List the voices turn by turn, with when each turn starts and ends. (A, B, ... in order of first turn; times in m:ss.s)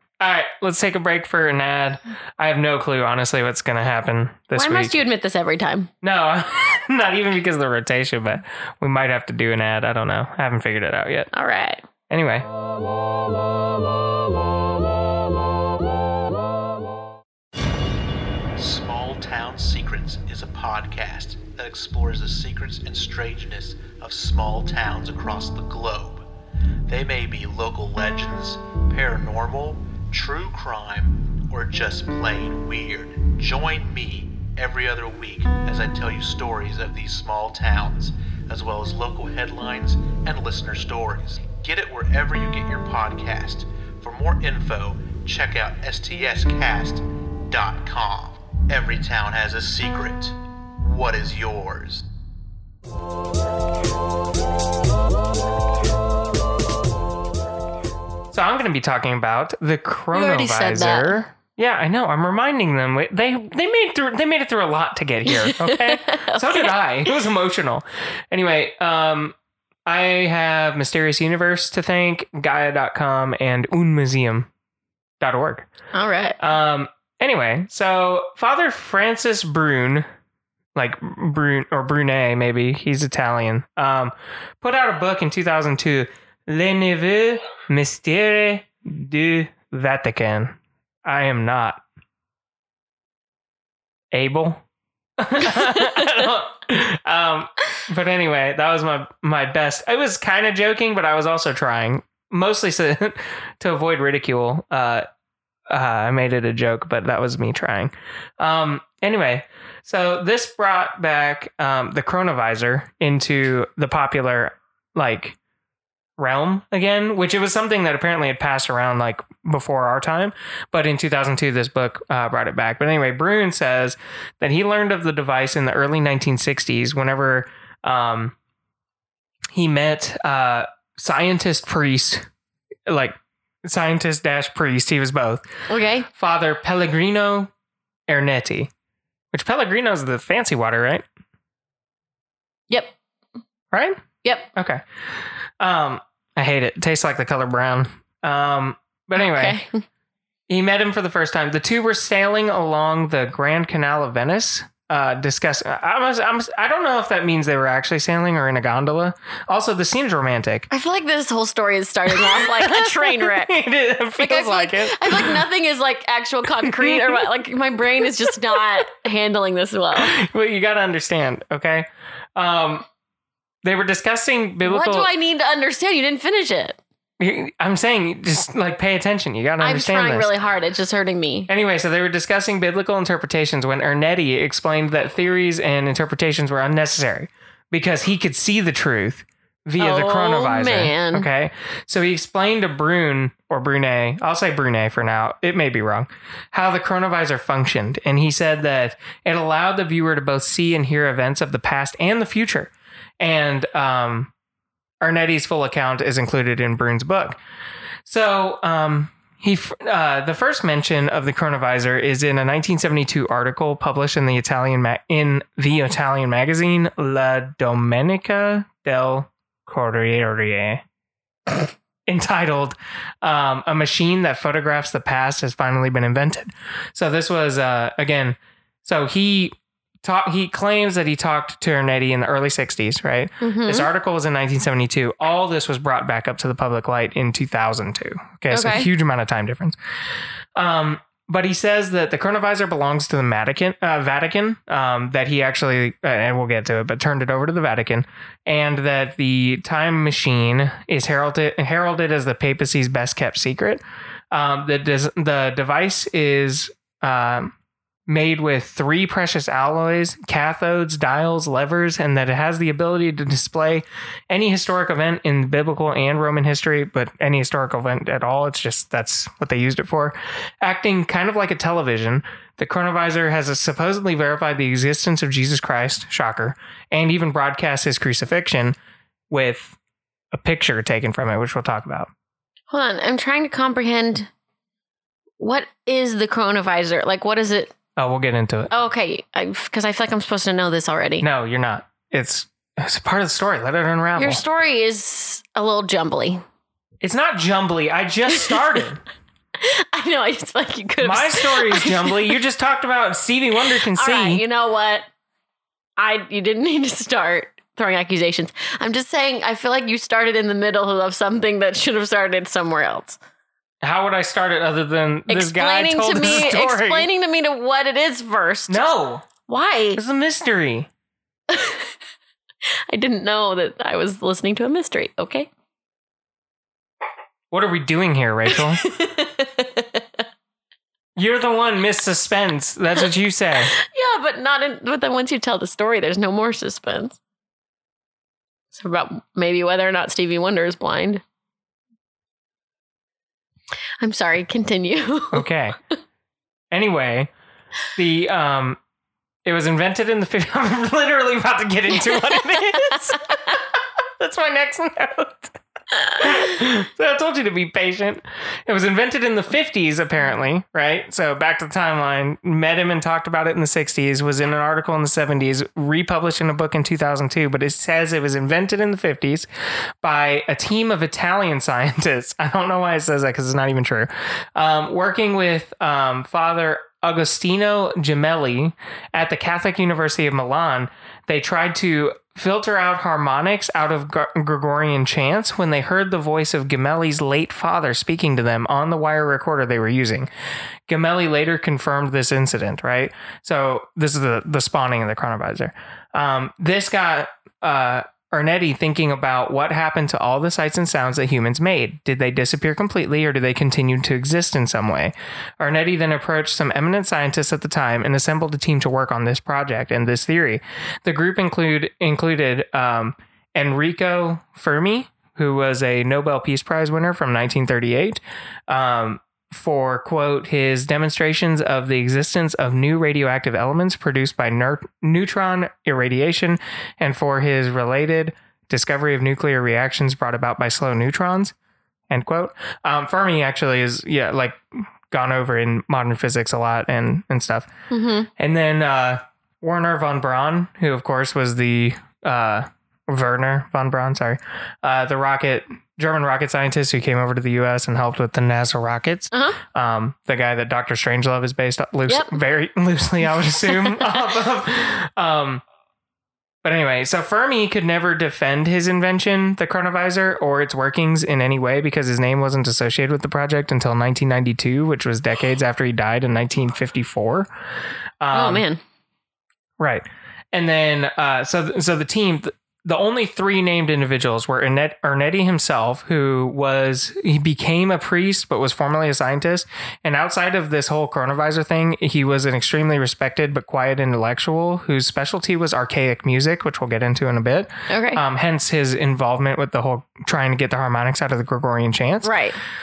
0:00.2-0:04.9 A
0:04.6-0:05.9 B
0:06.0-0:11.3 A
0:11.3-0:11.8 B
0:12.1-0:12.5 A
0:18.6-0:26.2 C
0:26.9-0:52.1 C
0:58.3-1:09.4 A
1:00.1-1:01.2 B
1:05.3-1:06.7 B
1:09.9-1:14.5 A
1:15.2-1:15.7 A
1:15.9-1:16.4 B
1:16.4-1:20.1 A
1:20.7-1:31.8 A
1:34.1-1:34.6 A
1:35.2-1:45.0 A
1:35.8-1:36.1 B
1:45.7-1:55.4 A
1:56.2-2:08.4 A
2:09.5-2:12.2 A
2:12.9-2:15.4 A
2:15.7-2:16.1 B
2:16.1-2:17.5 A
2:18.1-2:18.7 A
2:19.3-2:21.0 A
2:22.7-2:22.9 B
2:23.7-2:24.8 A
2:25.6-2:29.6 A
2:29.2-2:29.8 B
2:30.5-2:40.7 A
2:40.7-2:43.6 B
2:42.1-2:45.4 A
2:44.2-2:50.1 B
2:46.6-2:47.2 A
2:48.0-2:48.6 A
2:50.0-2:52.9 A
2:53.6-2:55.1 A
2:54.6-2:56.8 B
2:57.2-3:00.3 A
2:59.6-3:01.5 B
3:01.5-3:24.3 A
3:09.8-3:11.3 B
3:25.0-3:27.4 A
3:28.0-3:40.8 A
3:41.5-3:59.8 A
3:53.4-3:53.9 B
3:58.5-3:58.9 B
4:00.6-4:17.5 A
4:18.1-4:38.8 A
4:39.3-4:39.8 A
4:40.3-4:42.1 A
4:42.7-4:44.3 B
4:45.4-4:47.7 B
4:48.0-4:48.7 A
4:48.7-4:51.2 B
4:51.2-4:54.4 A
4:54.2-4:56.4 B
4:57.0-4:59.0 A
4:58.4-4:58.8 B
4:59.6-5:02.4 B
5:01.0-5:04.4 A
5:03.6-5:05.1 B
5:06.0-5:13.2 B
5:13.8-5:17.1 A
5:15.3-5:18.9 B
5:18.7-5:19.3 A
5:19.5-5:20.0 B
5:19.9-5:20.9 A
5:21.5-5:21.9 B
5:22.9-5:25.5 B
5:27.5-5:28.8 A
5:28.5-5:30.2 B
5:31.2-5:33.7 A
5:33.7-5:37.2 B
5:38.7-5:41.2 B
5:44.0-5:45.4 B
5:45.3-5:45.8 A
5:46.7-5:47.3 A
5:47.9-5:48.8 A
5:49.4-5:53.6 A
5:52.0-5:53.1 B
5:54.2-5:55.6 A
5:56.1-6:09.5 A
6:10.0-6:30.3 A
6:30.9-7:11.5 A
7:12.1-7:17.7 A
7:17.9-7:18.3 B
7:18.4-7:35.6 A
7:29.3-7:29.6 B
7:32.1-7:32.4 B
7:33.7-7:34.2 B
7:36.6-7:47.5 A
7:48.2-7:48.6 A
7:48.3-7:48.8 B
7:49.8-8:12.3 A
8:07.9-8:08.2 B
8:12.2-8:12.6 B